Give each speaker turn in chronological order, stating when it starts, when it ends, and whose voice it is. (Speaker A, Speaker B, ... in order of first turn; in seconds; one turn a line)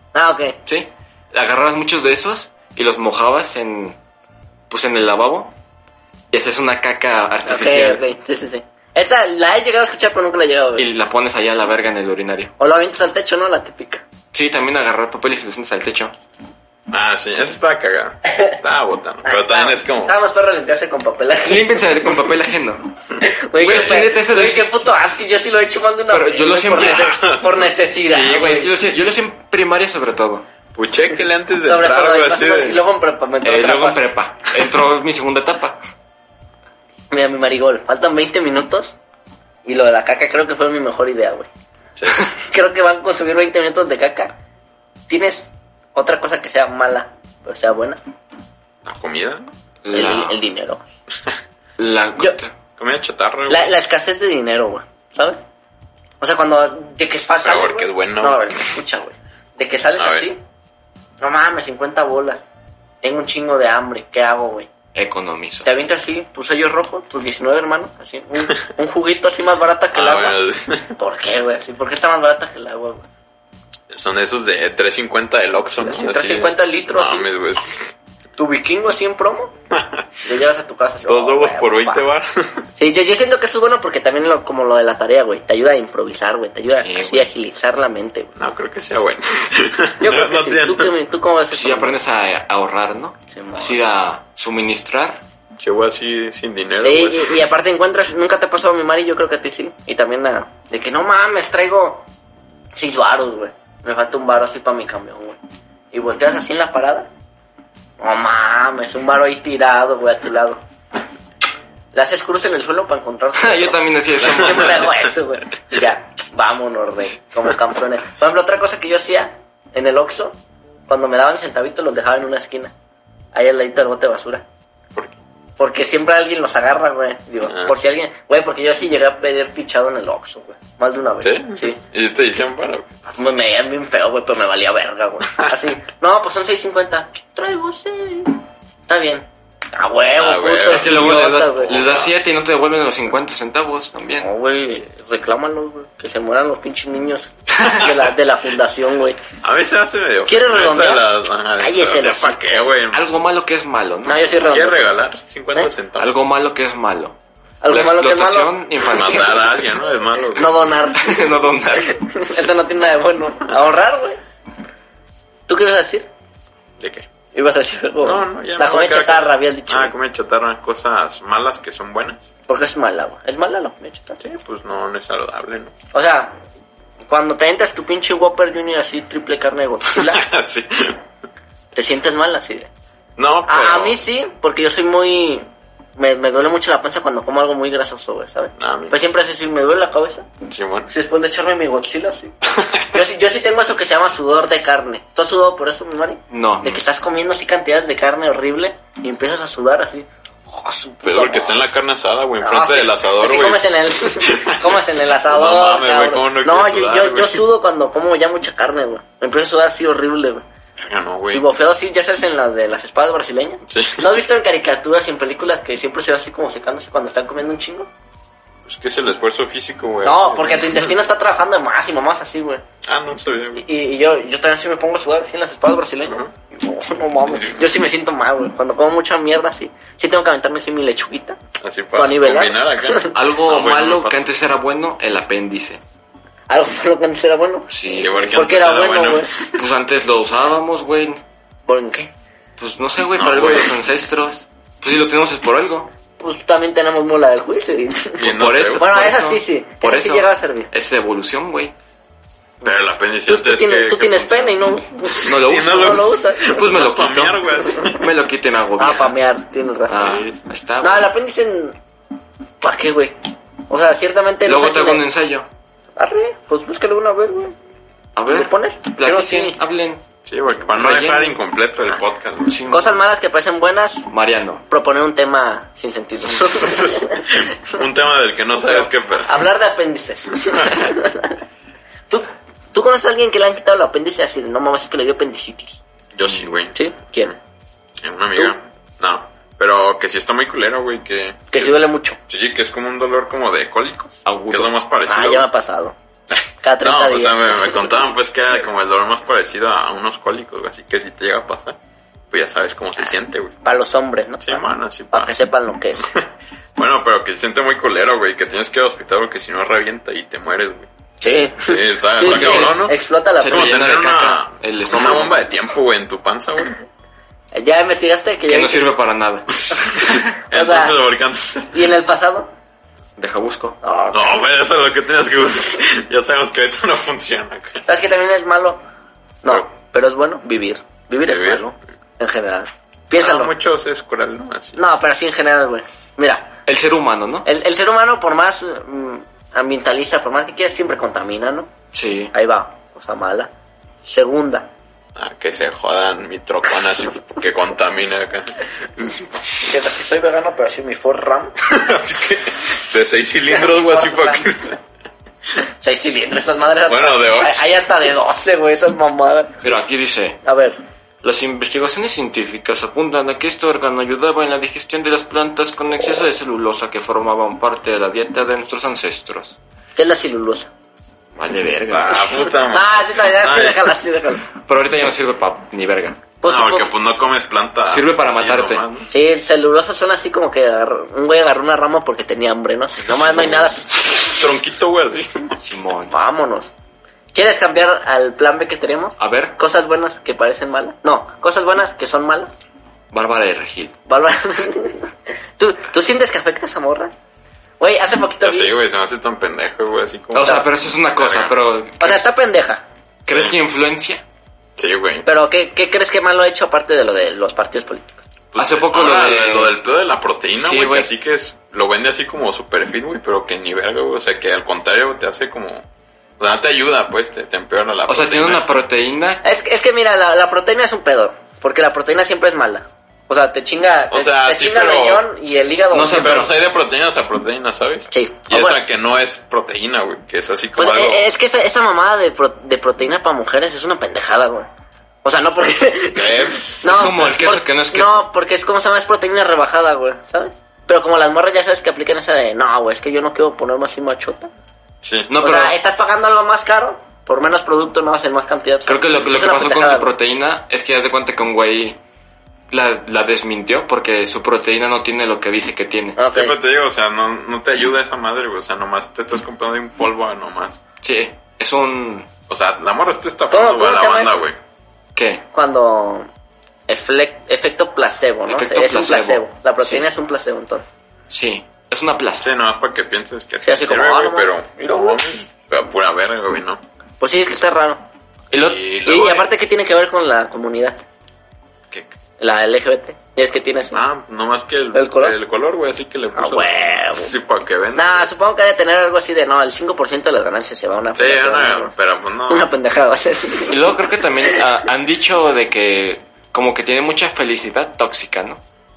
Speaker A: 0.1-0.6
Speaker B: 0.7-4.0
Speaker B: 4.7-5.5
Speaker B: 6.3-8.0
Speaker A: 7.5-10.9
Speaker B: 10.8-12.5
Speaker A: 12.6-14.0
Speaker B: 14.3-16.1
Speaker C: 16.9-20.1
Speaker A: 19.2-21.9
Speaker B: 21.4-22.9
Speaker A: 23.2-28.7
Speaker B: 23.6-24.7
Speaker B: 26.1-27.1
Speaker C: 26.8-27.7
Speaker B: 28.1-30.4
Speaker C: 30.7-32.8
Speaker A: 31.6-34.0
Speaker B: 33.4-35.8
Speaker A: 37.1-38.9
Speaker A: 39.6-41.5
Speaker C: 42.0-42.2
Speaker A: 42.1-44.4
Speaker A: 45.1-48.0
Speaker C: 48.8-49.5
Speaker B: 49.8-50.4
Speaker A: 49.9-50.8
Speaker B: 51.8-52.5
Speaker C: 52.8-53.7
Speaker A: 53.5-55.4
Speaker A: 56.2-60.4
Speaker C: 57.4-58.8
Speaker C: 60.0-60.3
Speaker A: 61.2-62.4
Speaker A: 63.0-64.7
Speaker B: 64.9-65.7
Speaker A: 65.6-70.4
Speaker C: 69.9-70.9
Speaker A: 70.9-73.0
Speaker C: 73.9-77.9
Speaker A: 75.8-77.3
Speaker A: 78.4-79.5
Speaker C: 79.7-80.1
Speaker A: 80.2-82.0
Speaker C: 81.0-82.6
Speaker A: 82.8-88.3
Speaker B: 86.8-87.3
Speaker C: 88.4-90.9
Speaker A: 90.0-91.9
Speaker B: 91.5-95.2
Speaker A: 93.3-93.8
Speaker C: 95.6-97.4
Speaker A: 96.8-102.0
Speaker A: 102.7-105.4
Speaker A: 105.9-107.1
Speaker A: 108.0-110.6
Speaker A: 111.9-120.4
Speaker B: 113.4-114.9
Speaker C: 114.2-115.1
Speaker A: 120.9-122.7
Speaker A: 123.3-124.4
Speaker A: 125.6-131.8
Speaker C: 127.5-127.8
Speaker C: 131.2-132.9
Speaker A: 133.1-141.9
Speaker C: 140.2-141.1
Speaker B: 140.7-144.3
Speaker C: 141.7-142.1
Speaker A: 144.2-149.2
Speaker C: 149.4-153.1
Speaker A: 150.3-151.1
Speaker A: 151.6-152.7
Speaker B: 152.9-154.4
Speaker A: 154.1-154.9
Speaker C: 154.3-156.1
Speaker B: 156.0-157.2
Speaker A: 157.6-159.2
Speaker B: 157.7-159.6
Speaker C: 158.8-160.7
Speaker A: 160.3-164.2
Speaker B: 160.8-162.4
Speaker A: 165.5-166.1
Speaker C: 166.8-167.1
Speaker A: 167.3-169.9
Speaker C: 168.0-172.3
Speaker A: 172.5-174.2
Speaker C: 174.2-175.7
Speaker A: 175.9-176.4
Speaker A: 177.1-180.2
Speaker C: 179.9-181.0
Speaker A: 181.7-182.7
Speaker C: 183.2-184.0
Speaker A: 183.4-190.3
Speaker C: 188.6-189.0
Speaker C: 190.5-190.9
Speaker A: 190.9-192.3
Speaker C: 192.5-192.9
Speaker A: 192.9-201.6
Speaker B: 196.3-196.8
Speaker C: 201.0-207.4
Speaker A: 202.4-210.4
Speaker C: 210.8-211.4
Speaker A: 211.3-217.9
Speaker C: 213.7-214.1
Speaker C: 218.7-221.0
Speaker A: 220.0-222.6
Speaker C: 222.8-223.6
Speaker A: 223.6-231.4
Speaker C: 226.1-226.3
Speaker C: 227.2-227.7
Speaker C: 231.6-234.3
Speaker A: 231.9-233.1
Speaker B: 233.1-235.8
Speaker A: 236.5-239.6
Speaker B: 237.7-238.5
Speaker C: 237.9-239.5
Speaker B: 239.6-241.2
Speaker A: 241.7-242.1
Speaker B: 242.6-245.9
Speaker C: 243.1-243.8
Speaker A: 246.2-248.2
Speaker C: 248.2-248.9
Speaker B: 248.2-251.7
Speaker A: 248.8-250.7
Speaker C: 252.6-258.1
Speaker A: 253.3-256.5
Speaker B: 255.2-259.1
Speaker A: 258.8-260.2
Speaker B: 259.9-261.1
Speaker C: 260.0-260.4
Speaker A: 260.8-261.8
Speaker A: 262.6-263.1
Speaker A: 263.7-265.0
Speaker B: 264.4-265.5
Speaker A: 266.0-267.5
Speaker B: 268.1-270.0
Speaker A: 268.3-269.6
Speaker C: 270.2-272.6
Speaker B: 270.6-271.4
Speaker B: 272.5-273.0
Speaker A: 272.7-274.1
Speaker B: 274.1-274.6
Speaker A: 274.7-277.8
Speaker C: 276.2-279.5
Speaker A: 278.7-281.4
Speaker C: 280.4-280.9
Speaker A: 282.1-285.8
Speaker C: 286.1-286.8
Speaker A: 286.7-287.3
Speaker C: 288.0-291.7
Speaker A: 291.5-292.2
Speaker C: 292.3-295.4
Speaker B: 294.2-294.7
Speaker A: 295.1-295.9
Speaker A: 296.6-297.9
Speaker C: 296.8-301.8
Speaker C: 302.3-303.5
Speaker A: 303.6-306.1
Speaker C: 304.4-305.3
Speaker C: 306.0-310.9
Speaker A: 311.2-313.8
Speaker C: 311.6-316.8
Speaker B: 312.2-312.9
Speaker B: 313.4-315.4
Speaker A: 314.9-315.2
Speaker A: 317.5-318.9
Speaker B: 318.5-319.6
Speaker C: 319.7-321.8
Speaker A: 319.7-320.9
Speaker A: 321.7-322.5
Speaker B: 323.2-323.8
Speaker A: 323.8-324.4
Speaker C: 324.1-327.8
Speaker A: 327.9-328.8
Speaker A: 329.4-333.5
Speaker C: 331.2-331.6
Speaker C: 333.2-334.8
Speaker A: 334.8-336.5
Speaker B: 336.6-337.5
Speaker A: 337.4-341.7
Speaker B: 341.9-342.3
Speaker A: 342.3-343.5
Speaker A: 344.0-344.7
Speaker C: 345.1-349.5
Speaker A: 349.6-351.5
Speaker C: 351.7-354.8
Speaker A: 353.5-354.5
Speaker A: 355.8-359.7
Speaker C: 356.9-357.9
Speaker B: 359.6-360.4
Speaker A: 360.4-360.8
Speaker B: 361.2-369.6
Speaker A: 369.9-370.7
Speaker B: 371.4-372.5
Speaker C: 371.9-374.0
Speaker A: 372.2-374.4
Speaker B: 374.6-376.2
Speaker A: 376.4-376.9
Speaker C: 376.4-379.1
Speaker B: 377.9-378.9
Speaker A: 379.1-384.5
Speaker C: 383.1-385.5
Speaker B: 385.6-386.1
Speaker A: 386.1-386.7
Speaker A: 387.3-392.5
Speaker B: 389.2-389.6
Speaker B: 393.1-393.9
Speaker A: 394.1-397.1
Speaker A: 397.8-398.7
Speaker C: 398.4-400.6
Speaker B: 400.3-402.2
Speaker C: 401.1-401.5
Speaker A: 402.0-402.8
Speaker B: 403.2-404.2
Speaker C: 404.8-405.2
Speaker A: 405.2-408.2
Speaker C: 408.5-415.9
Speaker B: 408.6-409.7
Speaker B: 410.6-411.1
Speaker C: 416.4-418.7
Speaker B: 418.1-419.4
Speaker A: 419.4-426.4
Speaker C: 424.1-425.2
Speaker B: 425.9-426.5
Speaker C: 426.1-431.2
Speaker A: 428.1-428.8
Speaker A: 430.8-434.7
Speaker A: 435.2-444.5
Speaker C: 436.1-437.2
Speaker B: 436.9-438.3
Speaker C: 445.0-445.3
Speaker B: 445.3-445.7
Speaker A: 445.4-450.1
Speaker B: 448.9-452.0
Speaker B: 452.7-456.2
Speaker A: 456.1-456.6
Speaker C: 456.3-460.8
Speaker B: 461.0-462.3
Speaker C: 462.5-464.6
Speaker A: 463.5-464.4
Speaker B: 465.1-465.4
Speaker A: 465.5-466.3
Speaker A: 466.9-470.8
Speaker B: 468.5-470.1
Speaker B: 471.3-472.5
Speaker C: 472.4-476.8
Speaker A: 473.6-475.2
Speaker A: 477.2-478.0
Speaker B: 478.5-479.4
Speaker C: 478.6-479.4
Speaker A: 479.0-481.0
Speaker C: 481.9-482.1
Speaker A: 482.4-484.0
Speaker C: 483.9-488.3
Speaker A: 484.9-485.3
Speaker A: 486.3-487.3
Speaker A: 487.9-491.9
Speaker C: 491.1-492.7
Speaker A: 492.5-493.8
Speaker B: 493.6-498.6
Speaker A: 494.4-494.7